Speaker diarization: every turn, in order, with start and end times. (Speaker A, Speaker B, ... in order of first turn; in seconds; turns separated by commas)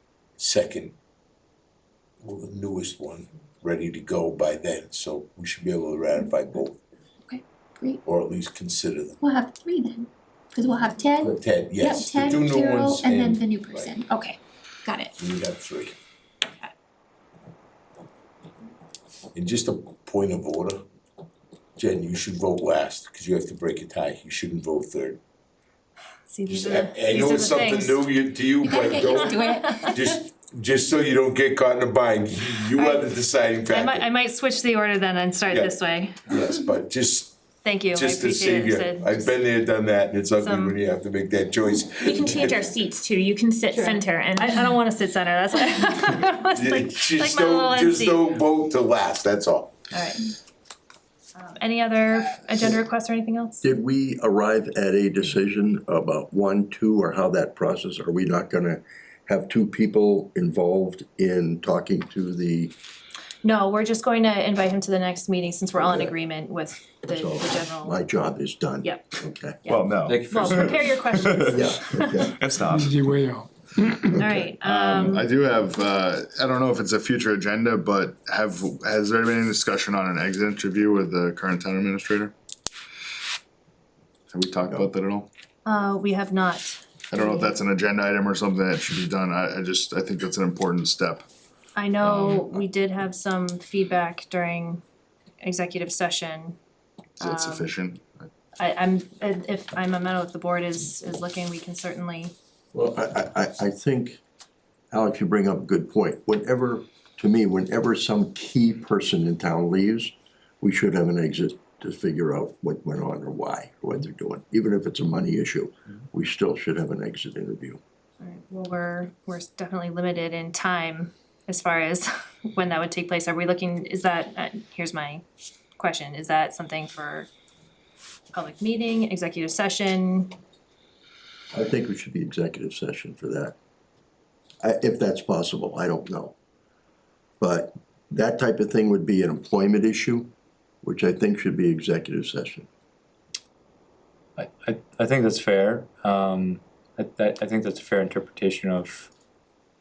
Speaker A: 0.4-0.9, Speaker A: 2.2-6.8, Speaker B: 7.3-8.0, Speaker A: 8.1-9.2, Speaker B: 9.2-15.2, Speaker A: 11.2-13.9, Speaker A: 15.2-16.0, Speaker B: 16.4-16.7, Speaker A: 19.4-20.8, Speaker A: 21.8-25.2, Speaker C: 26.3-28.1, Speaker A: 26.5-34.1, Speaker B: 28.6-30.3, Speaker C: 29.6-29.9, Speaker C: 32.7-36.4, Speaker A: 35.5-42.7, Speaker C: 37.6-39.4, Speaker C: 40.4-40.8, Speaker D: 42.0-44.6, Speaker C: 43.7-48.3, Speaker A: 46.5-49.9, Speaker C: 49.9-50.3, Speaker C: 51.4-53.7, Speaker E: 53.6-62.7, Speaker C: 63.4-68.0, Speaker E: 65.8-66.1, Speaker E: 67.1-69.7, Speaker C: 68.8-69.1, Speaker C: 69.6-72.3, Speaker F: 69.7-71.7, Speaker G: 70.1-70.8, Speaker E: 71.5-72.3, Speaker F: 72.4-73.3, Speaker C: 74.1-75.3, Speaker F: 74.5-82.3, Speaker F: 84.3-85.3, Speaker C: 85.7-87.6, Speaker F: 87.1-91.3, Speaker C: 91.8-94.8, Speaker F: 92.0-92.6, Speaker C: 95.4-96.6, Speaker C: 97.2-97.7, Speaker F: 97.2-98.3, Speaker C: 98.6-102.3, Speaker E: 102.7-104.2, Speaker E: 104.9-117.8, Speaker C: 118.2-125.2, Speaker C: 125.8-127.3, Speaker C: 128.3-130.3, Speaker E: 131.5-133.6, Speaker E: 134.6-136.3, Speaker E: 137.4-140.3, Speaker E: 140.8-142.7, Speaker G: 144.4-149.1